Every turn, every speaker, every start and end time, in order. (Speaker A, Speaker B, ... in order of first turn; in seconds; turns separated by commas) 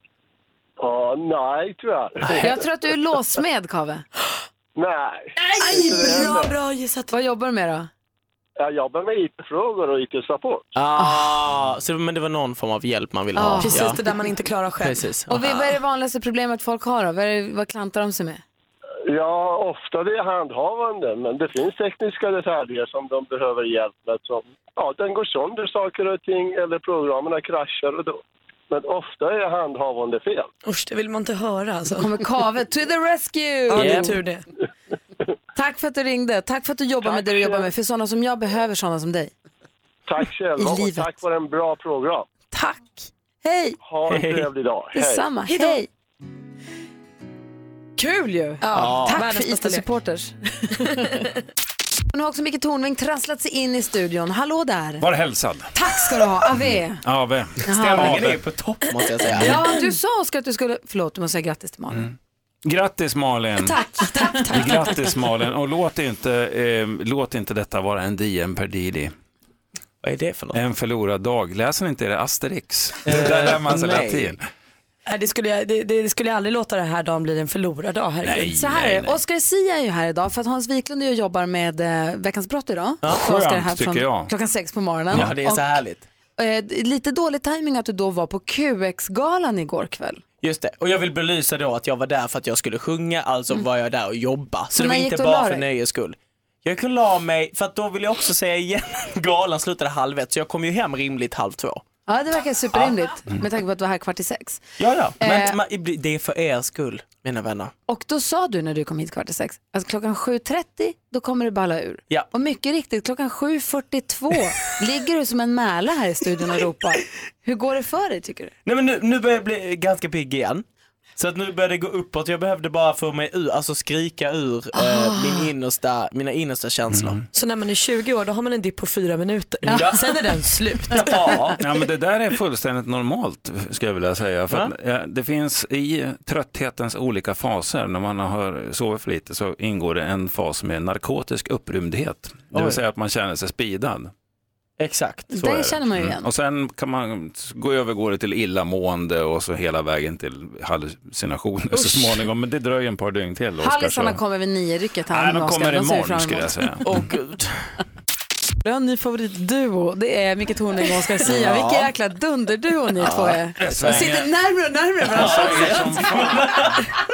Speaker A: 0.8-2.5, Speaker B: 2.4-4.0, Speaker A: 4.8-6.6, Speaker C: 5.4-7.1, Speaker B: 5.7-6.4, Speaker B: 7.1-7.9, Speaker A: 8.6-10.7, Speaker D: 10.7-14.0, Speaker B: 10.9-11.4, Speaker B: 13.3-13.8, Speaker C: 13.6-15.0, Speaker D: 14.8-15.4, Speaker B: 15.3-18.4, Speaker A: 19.1-30.5, Speaker C: 30.6-32.1, Speaker B: 32.0-34.1, Speaker C: 33.7-34.4, Speaker D: 33.8-34.1, Speaker B: 35.5-39.3, Speaker A: 37.0-37.7, Speaker A: 40.1-42.3, Speaker B: 40.6-41.1, Speaker B: 42.5-43.8, Speaker A: 43.8-45.3, Speaker D: 44.1-44.5, Speaker B: 44.9-45.9, Speaker C: 45.5-45.8, Speaker B: 48.0-51.1, Speaker C: 48.6-49.8, Speaker D: 48.7-49.2, Speaker B: 52.1-55.0, Speaker E: 55.0-55.7, Speaker B: 55.7-57.0, Speaker E: 56.5-58.5, Speaker B: 57.6-58.3, Speaker D: 57.9-59.6, Speaker B: 59.4-62.1, Speaker C: 59.4-59.8, Speaker E: 61.9-63.8, Speaker B: 63.6-64.8, Speaker C: 64.0-64.9, Speaker E: 64.3-69.1, Speaker D: 70.0-70.6, Speaker E: 70.5-74.5, Speaker D: 73.0-74.3, Speaker C: 75.0-78.5, Speaker E: 78.2-79.2, Speaker B: 78.5-85.8, Speaker E: 83.2-84.3, Speaker D: 85.1-86.0, Speaker B: 86.4-90.2, Speaker D: 90.4-101.8, Speaker B: 94.7-95.7, Speaker B: 102.1-104.6, Speaker D: 104.8-107.7, Speaker B: 105.2-105.5, Speaker B: 107.9-118.5, Speaker D: 118.6-120.6, Speaker D: 121.2-127.2, Speaker E: 126.9-127.2, Speaker C: 127.3-131.3, Speaker D: 129.7-130.3, Speaker D: 130.9-131.6, Speaker E: 131.6-144.1, Speaker D: 142.5-142.8, Speaker D: 144.8-145.6, Speaker B: 145.3-146.3, Speaker E: 145.7-154.2, Speaker B: 153.6-156.7, Speaker E: 155.1-157.1, Speaker D: 156.8-157.7, Speaker B: 158.6-166.4, Speaker D: 161.2-161.9, Speaker D: 163.0-163.9, Speaker E: 163.6-164.3, Speaker E: 165.0-166.5, Speaker D: 165.1-166.8